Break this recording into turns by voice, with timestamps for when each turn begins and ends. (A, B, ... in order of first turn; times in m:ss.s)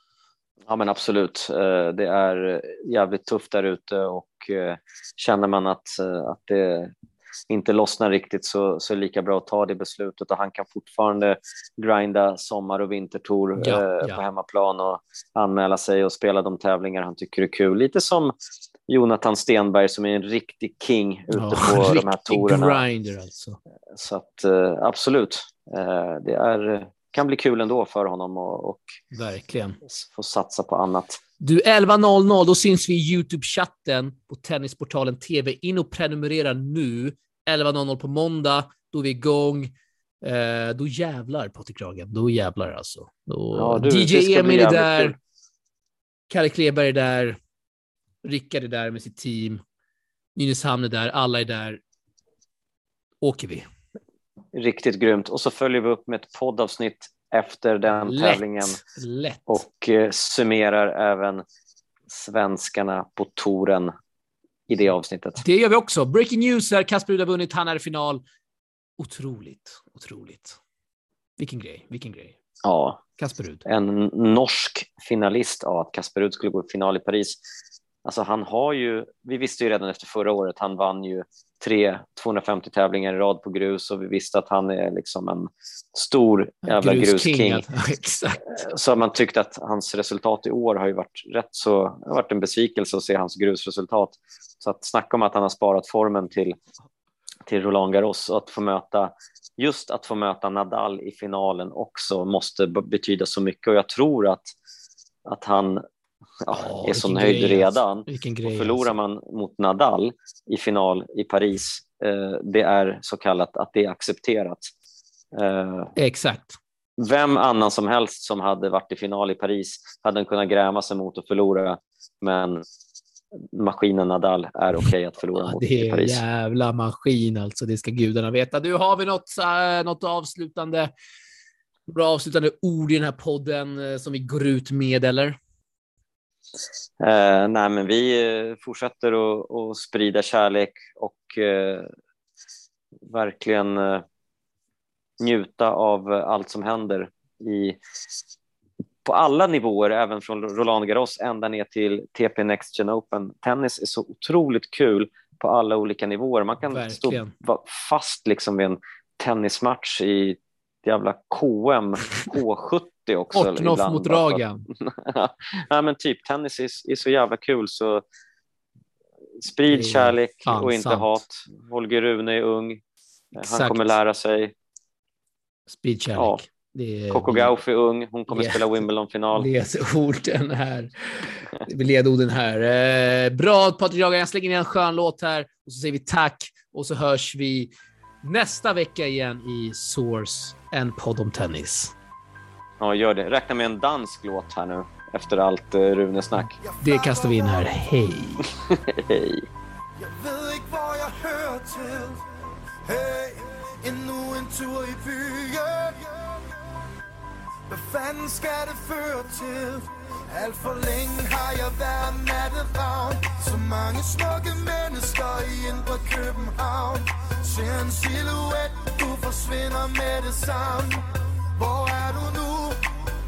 0:00.7-0:06.9 A
0:07.5-0:18.3 A
0:13.6-0:14.2 B
0:18.9-0:22.8 A
0:21.3-0:23.6 B
0:23.9-0:28.8 A
0:29.1-0:29.8 B
0:29.8-0:31.2 A
0:31.4-0:45.1 B
0:43.5-0:45.2 A
0:46.3-0:47.4 B
0:48.2-0:49.6 B
0:50.3-0:51.8 B
0:53.2-0:53.7 B
0:54.5-0:58.8 A
0:57.9-0:59.6 B
0:59.5-1:01.4 A
1:02.1-1:03.9 A
1:04.7-1:05.4 A
1:05.4-1:08.2 B
1:09.0-1:10.6 B
1:11.4-1:12.3 B
1:12.6-1:13.0 A
1:13.2-1:13.6 B
1:13.6-1:17.4 A
1:18.0-1:27.6 A
1:26.6-1:28.5 B
1:28.5-1:36.6 A
1:37.5-1:44.5 A
1:45.2-1:45.8 A
1:46.4-1:54.7 A
1:46.5-1:48.9 B
1:55.3-1:55.9 A
1:56.0-1:56.6 B
1:57.0-2:02.6 A
2:03.4-2:06.2 A
2:05.4-2:10.9 B
2:11.9-2:15.4 B
2:17.0-2:21.9 A
2:23.1-2:24.0 A
2:25.2-2:27.8 A
2:29.0-2:48.0 A
2:36.7-2:37.3 B
2:43.3-2:44.6 B
2:49.4-2:52.8 A
2:49.7-2:51.2 B
2:53.4-2:54.0 B
2:53.4-2:54.5 A
2:55.7-2:57.5 B
2:56.2-2:56.4 A
2:57.1-2:59.5 A
2:58.3-3:07.7 B
3:08.2-3:11.9 B
3:12.8-3:16.6 A
3:16.4-3:18.5 B
3:16.6-3:17.8 C
3:18.6-3:19.5 A
3:20.0-3:22.2 C
3:22.8-3:26.5 C
3:27.7-3:42.8 C